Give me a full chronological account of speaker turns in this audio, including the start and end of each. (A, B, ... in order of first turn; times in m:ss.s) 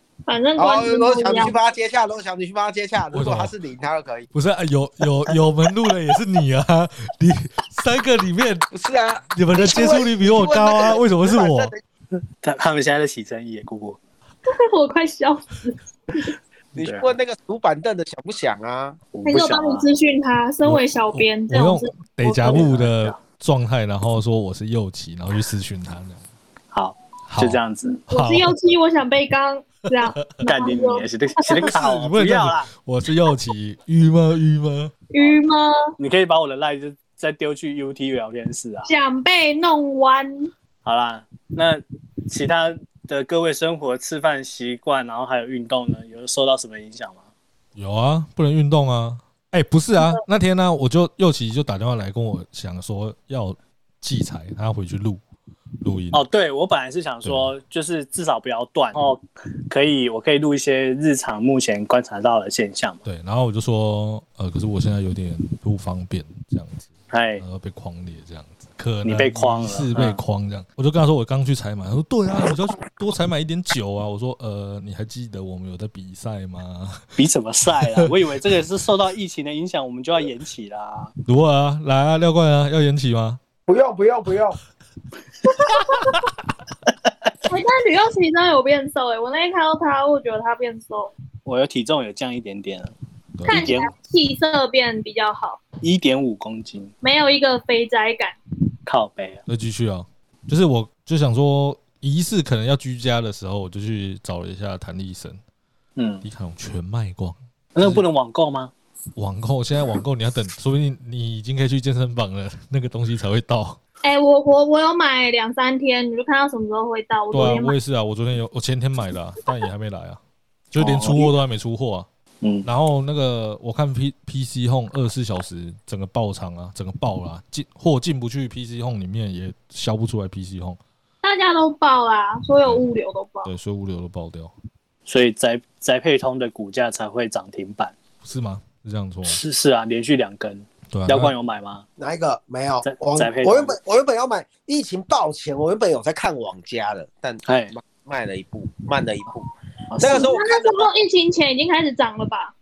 0:00.3-0:01.6 A
0:00.6-0:04.3 B
0:03.1-0:03.5 C
0:04.3-0:08.7 C
0:08.7-0:11.8 B
0:09.3-0:11.7 C
0:12.4-0:14.0 D
0:14.4-0:16.3 A
0:16.7-0:19.0 B
0:16.8-0:17.1 D
0:19.1-0:19.8 D
0:19.2-0:22.7 A
0:20.6-0:26.2 C
0:22.4-0:23.2 D
0:26.7-0:28.0 D
0:27.3-0:28.5 C
0:28.1-0:31.7 A
0:30.4-0:32.7 D
0:31.6-0:34.9 C
0:35.1-0:35.8 A
0:36.0-0:38.9 D
0:38.8-0:40.5 A
0:40.8-0:47.2 D
0:47.8-0:55.2 C
0:50.0-0:50.2 A
0:55.8-0:56.2 C
0:56.1-1:03.0 D
0:57.2-0:57.5 C
1:03.0-1:17.0 C
1:07.1-1:07.4 D
1:09.0-1:10.2 D
1:17.2-1:21.1 D
1:21.2-1:23.4 C
1:23.7-1:24.6 B
1:25.4-1:26.2 A
1:27.5-1:31.1 A
1:31.4-1:32.9 D
1:33.4-1:33.7 C
1:33.4-1:35.6 A
1:33.5-1:33.9 D
1:35.8-1:36.9 D
1:37.0-1:38.4 A
1:38.8-1:39.4 D
1:39.5-1:45.4 C
1:46.0-1:46.2 D
1:46.2-1:48.0 C
1:47.7-1:48.7 D
1:49.2-1:53.8 C
1:54.0-1:57.7 A
1:57.3-2:00.2 C
2:00.7-2:02.1 C
2:00.8-2:01.3 D
2:02.4-2:02.7 D
2:02.6-2:10.8 C
2:11.2-2:13.5 A
2:13.4-2:14.5 C
2:15.1-2:17.9 D
2:18.2-2:19.4 C
2:19.2-2:21.8 D
2:20.9-2:21.3 C
2:22.0-2:29.4 B
2:22.8-2:23.8 D
2:27.4-2:27.7 D
2:29.9-2:30.3 D
2:30.0-2:30.9 B
2:30.0-2:32.5 A